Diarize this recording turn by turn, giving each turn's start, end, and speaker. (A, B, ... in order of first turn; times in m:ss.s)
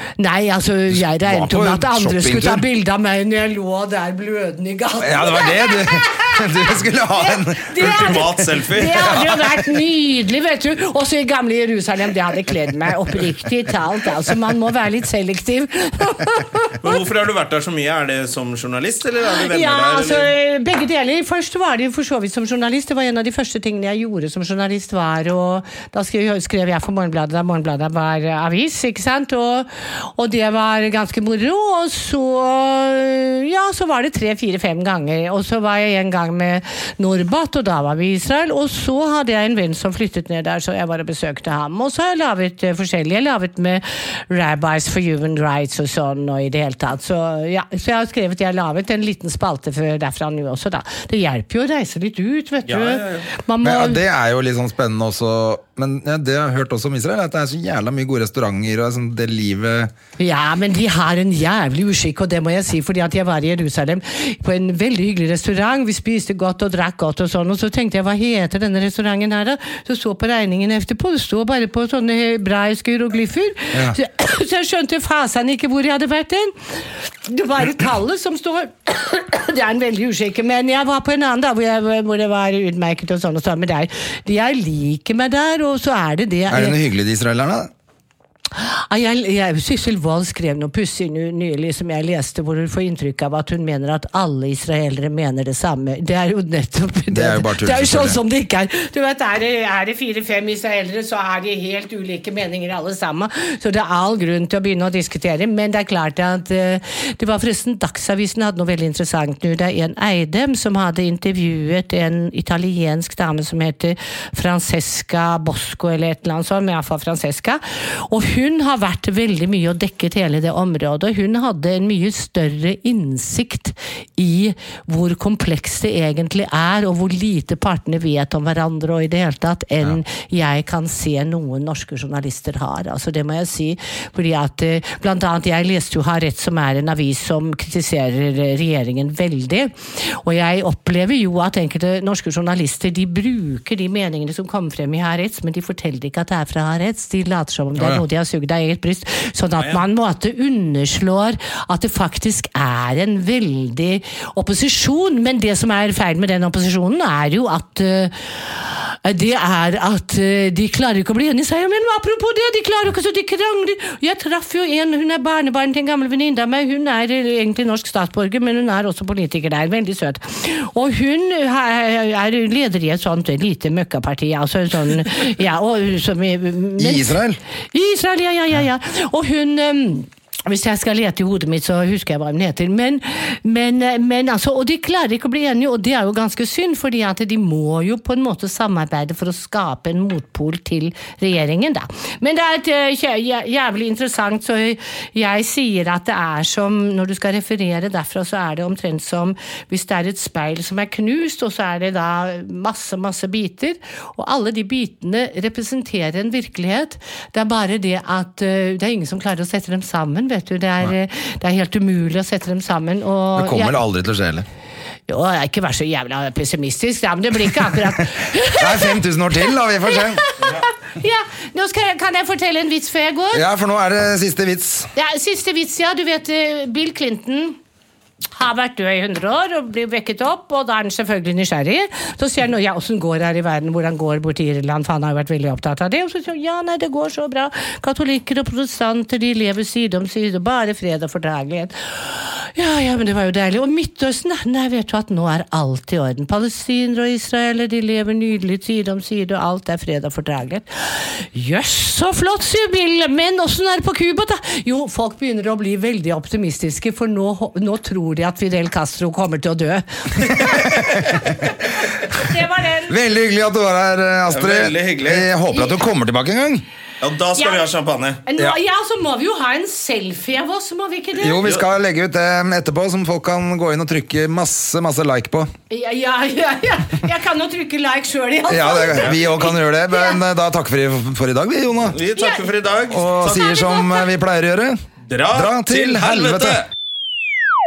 0:00.2-0:17.0 A
0:00.9-0:02.7 B
0:05.0-0:08.2 B
0:07.8-0:09.3 C
0:08.9-0:09.6 B
0:16.8-0:20.3 C
0:19.2-0:54.0 A
0:52.6-0:53.3 C
0:53.6-0:59.9 B
1:00.2-1:26.8 A
1:26.5-1:27.7 B
1:28.6-2:57.2 A
1:37.1-1:38.2 B
2:27.8-2:28.0 B
2:56.8-2:57.4 B
2:57.7-3:33.8 A
3:33.4-3:34.4 B
3:35.1-3:39.0 A
3:38.6-3:40.2 B
3:39.8-3:43.4 A
3:43.3-3:44.9 B
3:45.0-3:47.6 A
3:48.4-4:23.0 A
4:22.9-4:26.6 B
4:24.3-4:25.3 C
4:27.0-4:28.2 C
4:27.4-4:27.6 A
4:28.3-4:31.5 A
4:31.2-4:35.5 B
4:35.7-4:40.2 A
4:38.5-4:42.0 B
4:41.9-4:43.7 C
4:42.2-4:42.5 A
4:42.9-4:44.8 B
4:43.3-4:44.0 A
4:45.1-4:46.7 C
4:45.3-4:46.6 B